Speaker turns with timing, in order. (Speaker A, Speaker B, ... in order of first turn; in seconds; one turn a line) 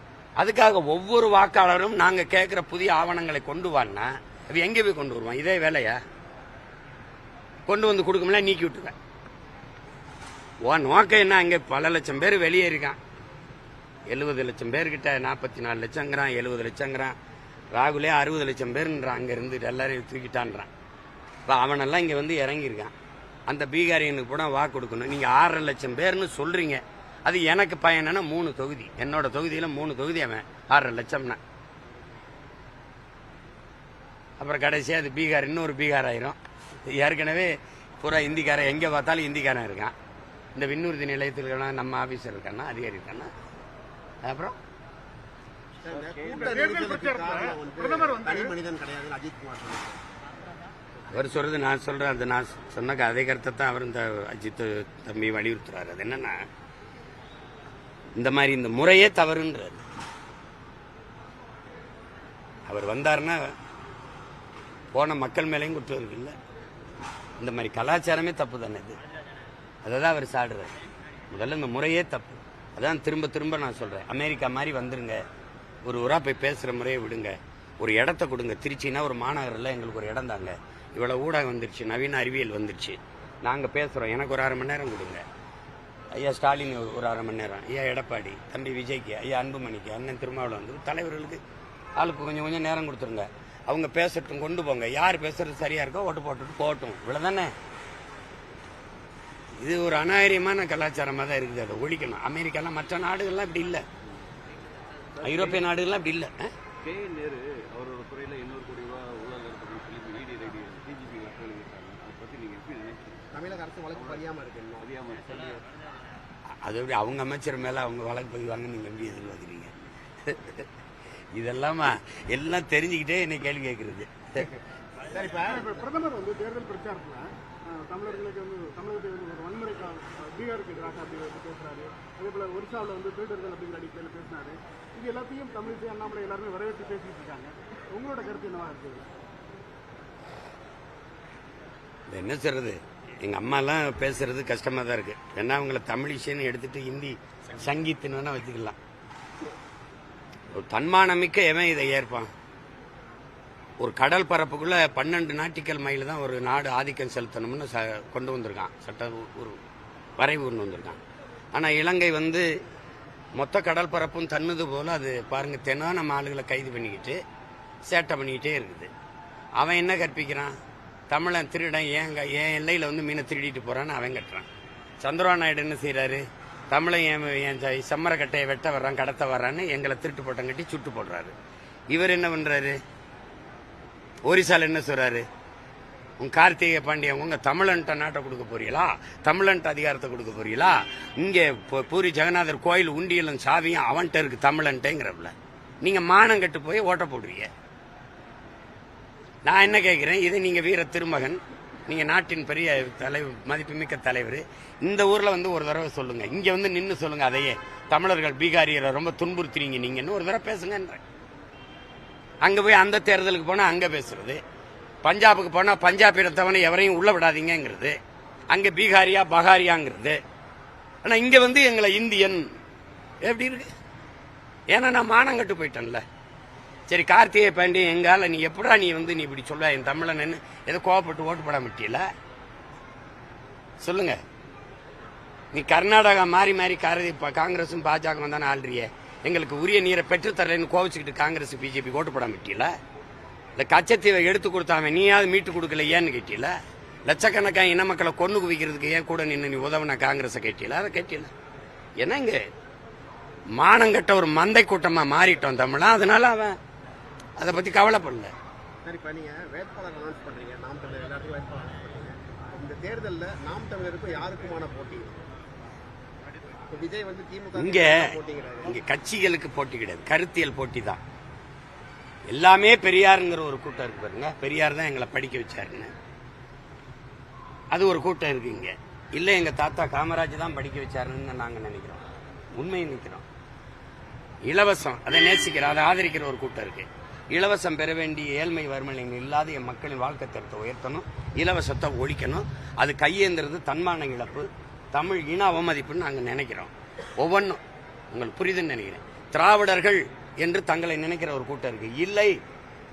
Speaker A: 0.4-6.0
Speaker A: 7.7-8.9
Speaker A: 10.6-13.0
Speaker A: 14.1-17.1
Speaker A: 17.7-20.7
Speaker A: 21.4-22.9
Speaker A: 23.5-31.4
Speaker A: 34.4-39.9
Speaker A: 40.5-43.3
Speaker A: 44.2-44.5
Speaker B: 45.8-50.0
Speaker C: 46.3-48.5
Speaker A: 51.1-56.4
Speaker A: 58.1-59.8
Speaker A: 62.7-63.5
Speaker A: 64.9-66.3
Speaker A: 67.4-69.0
Speaker A: 69.8-70.7
Speaker A: 71.3-75.2
Speaker A: 75.8-85.2
Speaker A: 86.1-91.4
Speaker A: 92.0-97.5
Speaker A: 99.6-103.8
Speaker D: 105.2-105.6
Speaker A: 105.2-106.5
Speaker D: 106.8-113.3
Speaker B: 113.3-114.9
Speaker D: 113.9-114.2
Speaker D: 114.8-115.7
Speaker A: 116.6-120.7
Speaker A: 121.3-124.4
Speaker B: 125.1-125.7
Speaker C: 125.5-139.1
Speaker A: 142.1-148.8
Speaker A: 150.5-152.3
Speaker A: 153.8-159.6
Speaker A: 160.2-161.0
Speaker A: 161.5-162.6
Speaker A: 163.3-167.2
Speaker A: 167.9-168.9
Speaker A: 169.6-170.5
Speaker A: 171.1-174.4
Speaker A: 175.0-181.3
Speaker A: 181.9-182.8
Speaker A: 184.2-185.2
Speaker A: 186.2-197.5
Speaker A: 199.4-211.0
Speaker A: 212.4-214.4
Speaker A: 215.0-218.0
Speaker A: 218.5-220.2
Speaker A: 221.0-222.5
Speaker A: 223.2-223.7
Speaker A: 224.7-226.0
Speaker A: 226.9-232.1
Speaker A: 233.8-234.2
Speaker A: 235.5-242.7
Speaker A: 243.6-246.5
Speaker A: 247.1-251.3
Speaker A: 252.0-252.4
Speaker A: 253.6-256.6
Speaker A: 257.4-258.3
Speaker B: 258.8-265.1
Speaker B: 266.7-268.8
Speaker A: 267.6-271.0
Speaker A: 272.3-275.9
Speaker A: 277.7-282.0
Speaker A: 282.6-283.2
Speaker A: 284.4-302.4